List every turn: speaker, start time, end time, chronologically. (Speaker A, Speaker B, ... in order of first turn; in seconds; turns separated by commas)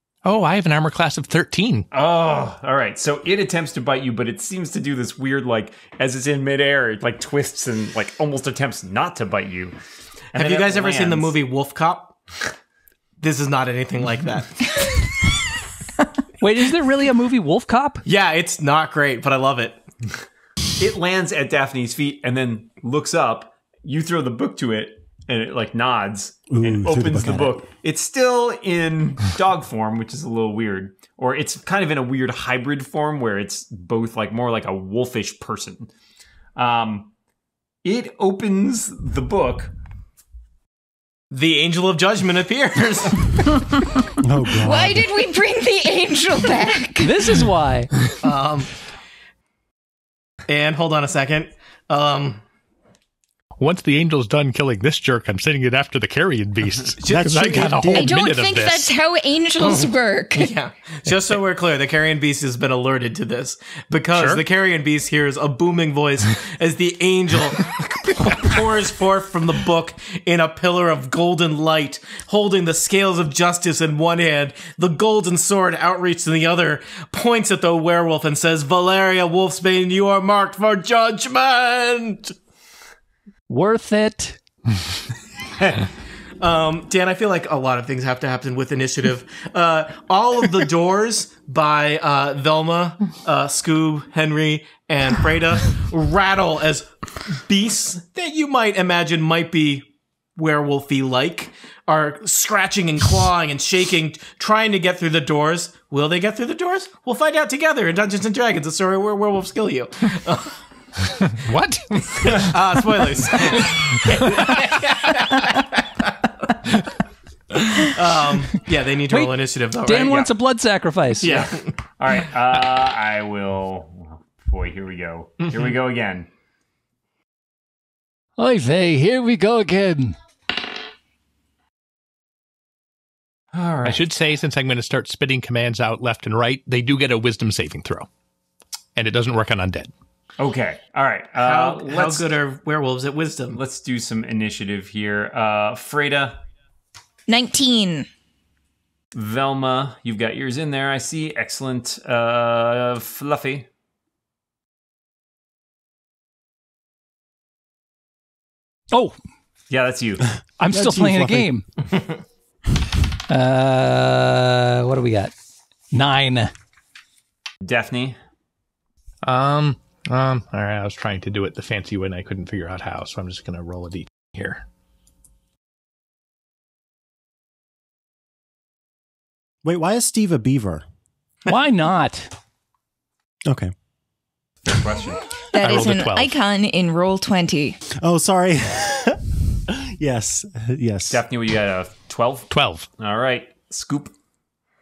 Speaker A: 0.2-1.9, Speaker B: 1.9-9.8, Speaker B: 10.3-11.3, Speaker C: 10.3-12.1, Speaker C: 13.2-14.8, Speaker D: 16.4-18.0, Speaker C: 18.0-19.8, Speaker B: 20.8-35.9, Speaker E: 26.5-27.6, Speaker B: 36.5-37.1, Speaker B: 37.8-39.7, Speaker C: 41.3-43.3, Speaker E: 44.2-45.1, Speaker F: 44.6-47.1, Speaker D: 47.0-47.9, Speaker C: 48.2-48.7, Speaker C: 50.5-52.4, Speaker A: 53.6-58.9, Speaker C: 57.0-57.8, Speaker E: 57.1-58.1, Speaker F: 57.9-60.5, Speaker C: 59.6-82.3, Speaker A: 64.1-64.4, Speaker D: 83.5-84.4, Speaker C: 86.4-110.6, Speaker A: 111.2-114.5, Speaker C: 112.2-116.1, Speaker C: 117.7-120.2, Speaker D: 119.1-121.4, Speaker B: 121.2-126.3, Speaker D: 128.4-130.2, Speaker B: 133.5-134.1, Speaker A: 133.8-138.1, Speaker A: 138.9-139.9, Speaker B: 140.4-142.3, Speaker C: 141.4-143.6, Speaker B: 143.5-146.4, Speaker F: 147.3-148.1, Speaker B: 149.1-153.7, Speaker B: 159.7-160.2, Speaker D: 160.6-161.6, Speaker E: 160.7-161.5, Speaker D: 163.3-165.3, Speaker D: 165.9-166.5, Speaker B: 167.6-168.2, Speaker A: 169.2-174.6, Speaker E: 179.6-180.8, Speaker D: 181.4-182.3, Speaker E: 183.4-183.7, Speaker B: 184.6-185.2, Speaker F: 185.5-187.8, Speaker A: 185.6-186.3, Speaker E: 188.0-191.2, Speaker B: 191.1-194.1, Speaker A: 192.5-192.9